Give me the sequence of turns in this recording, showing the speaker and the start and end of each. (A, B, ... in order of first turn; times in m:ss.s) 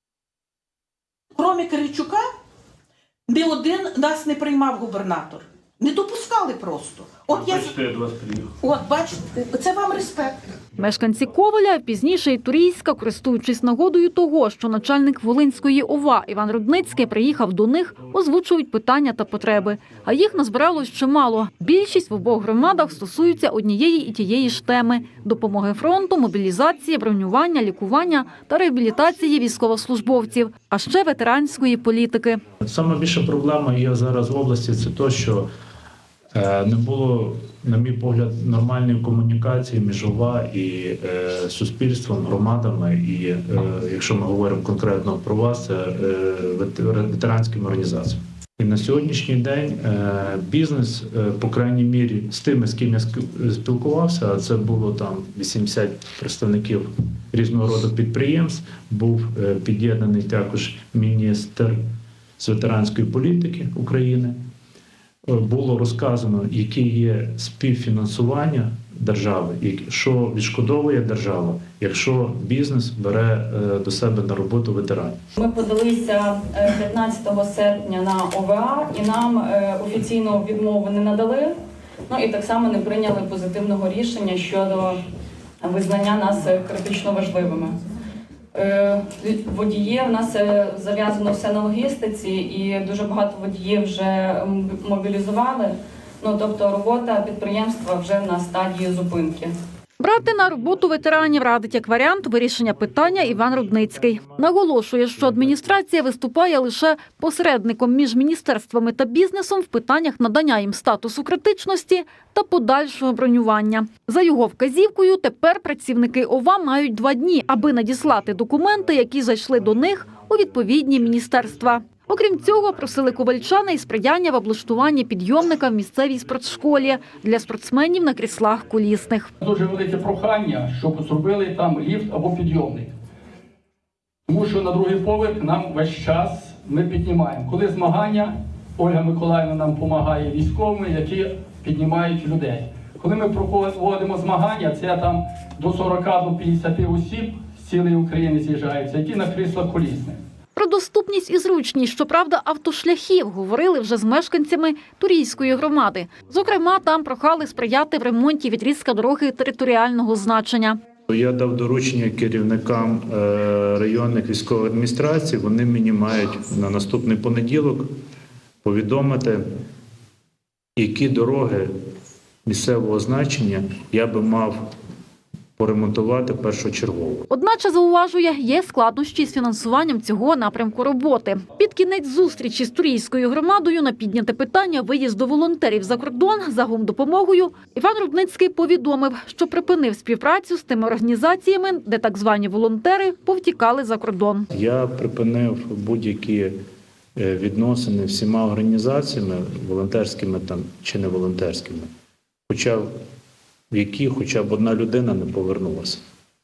0:01.4-0:02.2 A
0:03.3-0:07.8 A
0:07.4-0:08.6 B
0:08.6-0:10.4 A
0:10.8-0:32.4 C
0:32.6-0:35.5 B
0:36.3-1:01.8 B
1:02.4-1:04.4 B
1:05.3-1:15.2 B
1:15.4-1:21.5 D
1:22.1-1:25.0 D
1:25.6-1:27.8 D
1:28.5-1:39.5 D
1:40.0-2:09.3 C
2:09.4-2:12.9 E
2:14.3-2:30.2 E
2:30.6-2:40.8 C
2:41.1-2:47.9 B
2:48.6-2:49.4 B
2:50.8-2:51.7 B
2:52.4-2:54.6 B
2:55.6-2:57.3 B
2:57.3-3:14.5 C
3:14.5-3:16.5 B
3:17.2-3:21.9 B
3:22.5-3:22.9 B
3:23.7-3:26.0 B